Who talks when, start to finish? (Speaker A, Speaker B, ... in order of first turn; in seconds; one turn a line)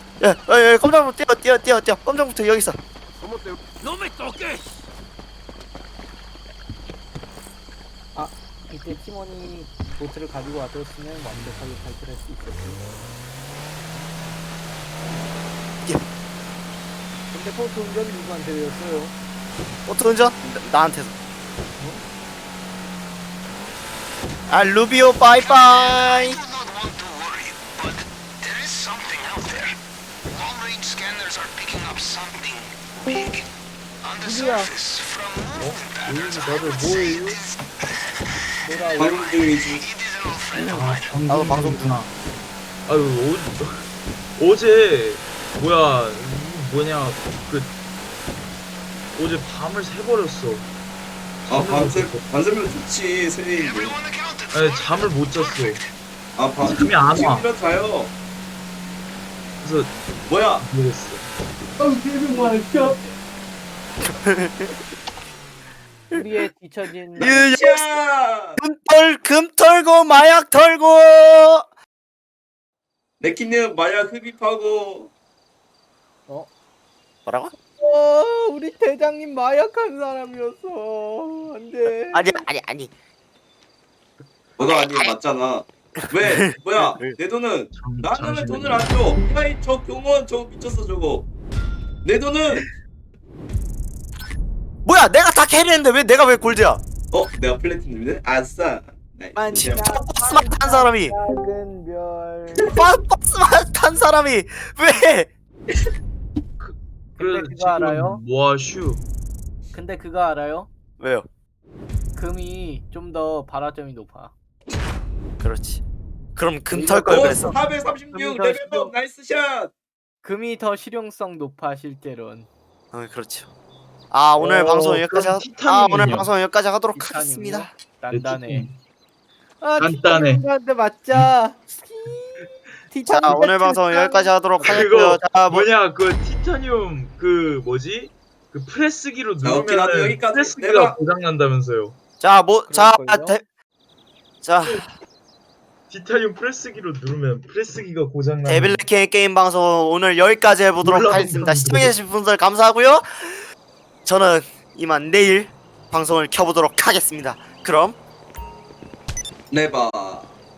Speaker A: 0.2-2.8
Speaker B: 8.1-12.8
Speaker B: 17.3-19.2
Speaker A: 19.9-21.1
Speaker B: 21.8-22.0
Speaker A: 24.5-26.4
Speaker C: 25.4-29.8
Speaker C: 30.3-33.5
Speaker C: 34.0-38.2
Speaker B: 34.2-34.7
Speaker D: 35.6-37.4
Speaker B: 38.6-39.2
Speaker C: 38.8-41.2
Speaker E: 39.0-39.9
Speaker D: 40.6-42.1
Speaker A: 41.3-41.9
Speaker D: 42.9-47.8
Speaker D: 49.1-50.7
Speaker D: 51.5-52.2
Speaker E: 51.5-54.0
Speaker C: 53.6-55.8
Speaker D: 54.5-55.8
Speaker E: 56.4-58.1
Speaker D: 56.6-57.5
Speaker D: 59.6-60.0
Speaker E: 60.3-60.6
Speaker D: 60.6-61.3
Speaker B: 61.8-63.2
Speaker D: 62.3-63.0
Speaker A: 64.0-64.7
Speaker B: 66.1-67.5
Speaker A: 67.2-68.0
Speaker E: 67.2-68.6
Speaker A: 68.6-71.7
Speaker E: 73.2-75.1
Speaker A: 77.3-77.5
Speaker B: 77.8-82.4
Speaker A: 82.1-82.9
Speaker E: 84.6-91.3
Speaker A: 84.6-85.1
Speaker A: 86.0-87.2
Speaker D: 87.7-89.0
Speaker E: 92.0-92.7
Speaker A: 94.8-96.8
Speaker E: 97.1-99.8
Speaker B: 99.3-102.7
Speaker A: 99.5-101.2
Speaker A: 102.7-105.3
Speaker D: 106.6-109.0
Speaker B: 107.2-108.2
Speaker B: 109.7-110.7
Speaker A: 111.0-111.3
Speaker B: 112.1-114.3
Speaker A: 115.4-115.8
Speaker A: 116.4-117.6
Speaker B: 116.7-118.9
Speaker E: 117.1-119.7
Speaker B: 120.2-122.5
Speaker A: 122.9-123.5
Speaker A: 124.1-127.7
Speaker D: 124.4-126.3
Speaker B: 127.0-128.7
Speaker D: 128.1-128.8
Speaker B: 129.6-135.0
Speaker D: 129.8-130.4
Speaker A: 133.1-135.7
Speaker D: 134.6-142.0
Speaker E: 139.4-141.0
Speaker A: 142.2-143.4
Speaker B: 142.7-143.4
Speaker A: 144.4-144.9
Speaker D: 145.9-148.9
Speaker A: 148.4-153.5
Speaker D: 150.8-151.9
Speaker A: 154.1-158.0
Speaker E: 159.5-160.3